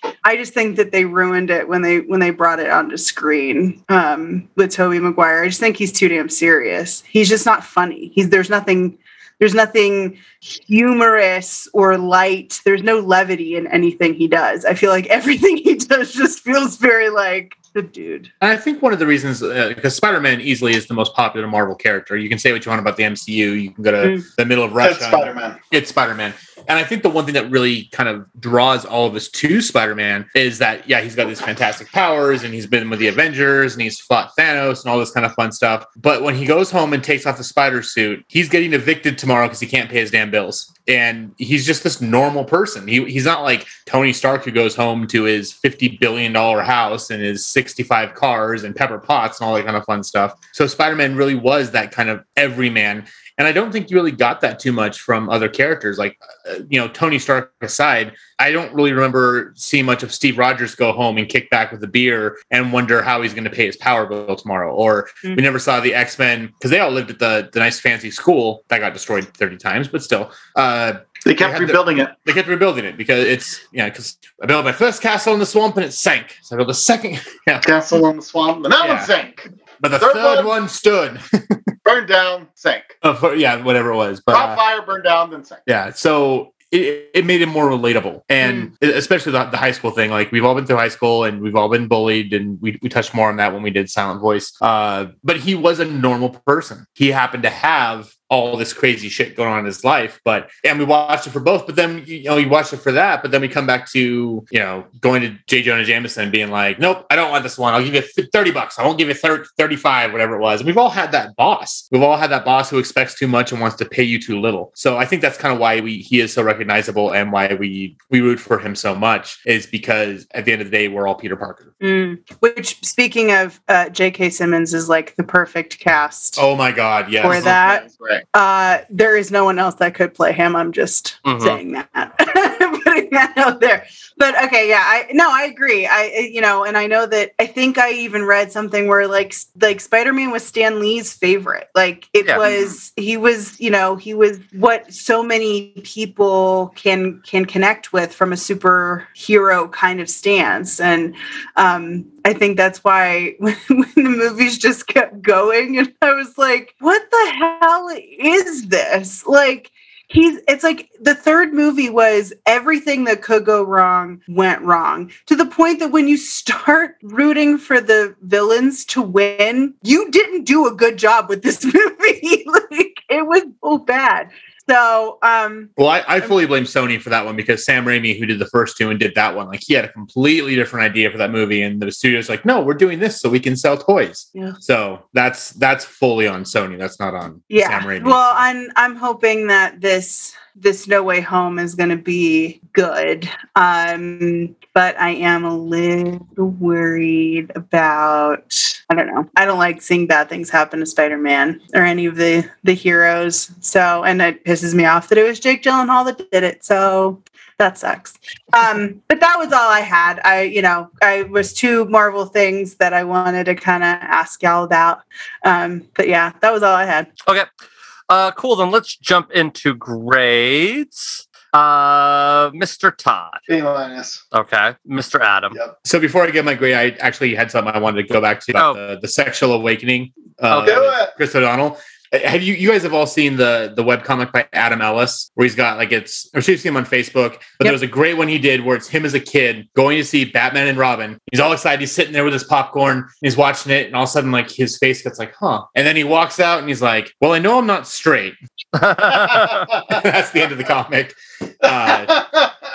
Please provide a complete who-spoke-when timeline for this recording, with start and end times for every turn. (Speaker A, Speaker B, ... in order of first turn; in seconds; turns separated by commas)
Speaker A: 0.2-18.3, Speaker B: 18.4-77.7, Speaker C: 24.8-25.6, Speaker C: 71.2-72.1, Speaker C: 77.6-80.5, Speaker B: 78.8-79.1, Speaker B: 79.8-81.6, Speaker C: 81.8-83.0, Speaker B: 83.0-84.6, Speaker C: 84.3-85.6, Speaker B: 85.7-121.7, Speaker A: 88.4-88.7, Speaker A: 121.8-126.4, Speaker B: 126.4-127.5, Speaker A: 127.2-175.7, Speaker C: 127.3-128.2, Speaker D: 131.2-131.6, Speaker C: 142.4-142.8, Speaker B: 175.8-188.4, Speaker A: 187.5-217.1, Speaker D: 218.1-223.4, Speaker C: 223.5-224.2, Speaker D: 224.3-225.6, Speaker B: 225.8-248.4, Speaker D: 230.5-230.8, Speaker C: 230.6-231.1, Speaker D: 248.8-249.7, Speaker B: 249.8-252.2, Speaker C: 251.9-252.5